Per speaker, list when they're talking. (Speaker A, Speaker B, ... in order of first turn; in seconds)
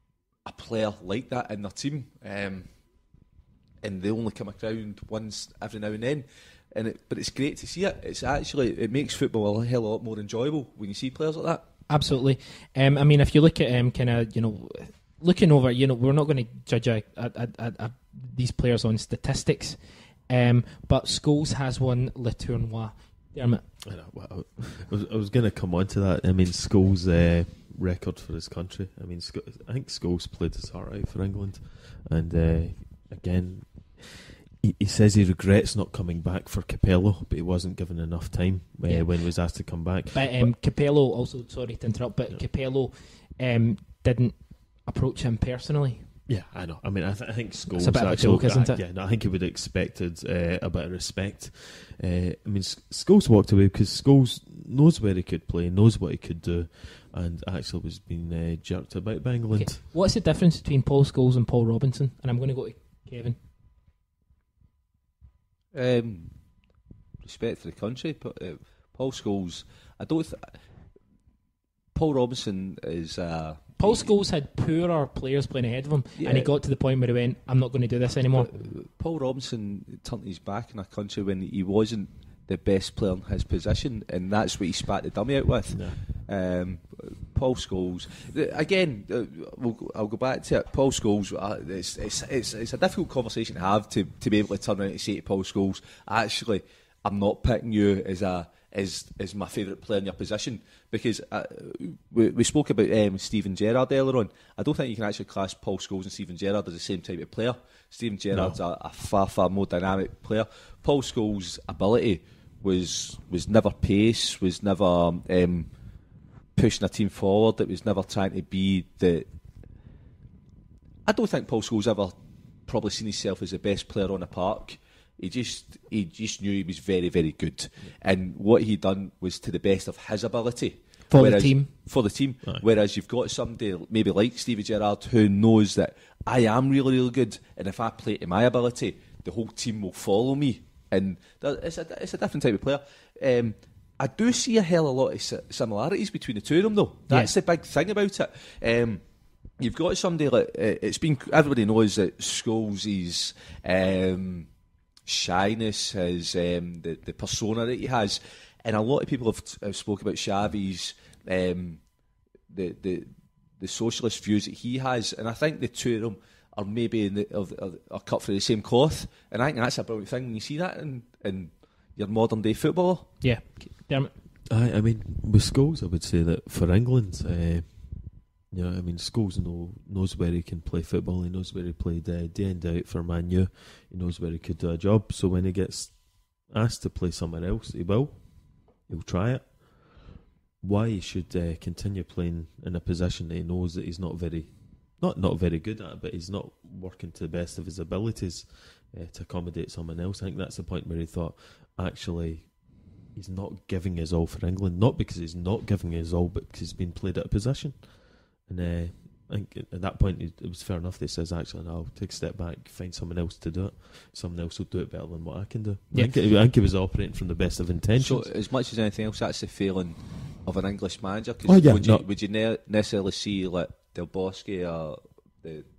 Speaker A: 0.4-2.7, 3.8-11.6, 65.7-66.4, 67.2-70.6, 71.9-74.1, 76.2-76.5, 78.3-115.7, 116.5-119.3, 121.0-149.0, 149.6-154.5, 155.1-161.8, 162.5-173.2, 217.9-225.7
Speaker B: 11.9-23.6, 38.8-46.1, 47.7-48.8, 59.5-63.4, 73.8-78.5, 131.1-131.7, 147.1-147.3, 173.2-174.1
Speaker C: 23.8-40.5, 46.3-59.8, 85.7-86.0, 108.3-108.6, 174.5-218.3, 221.4-222.1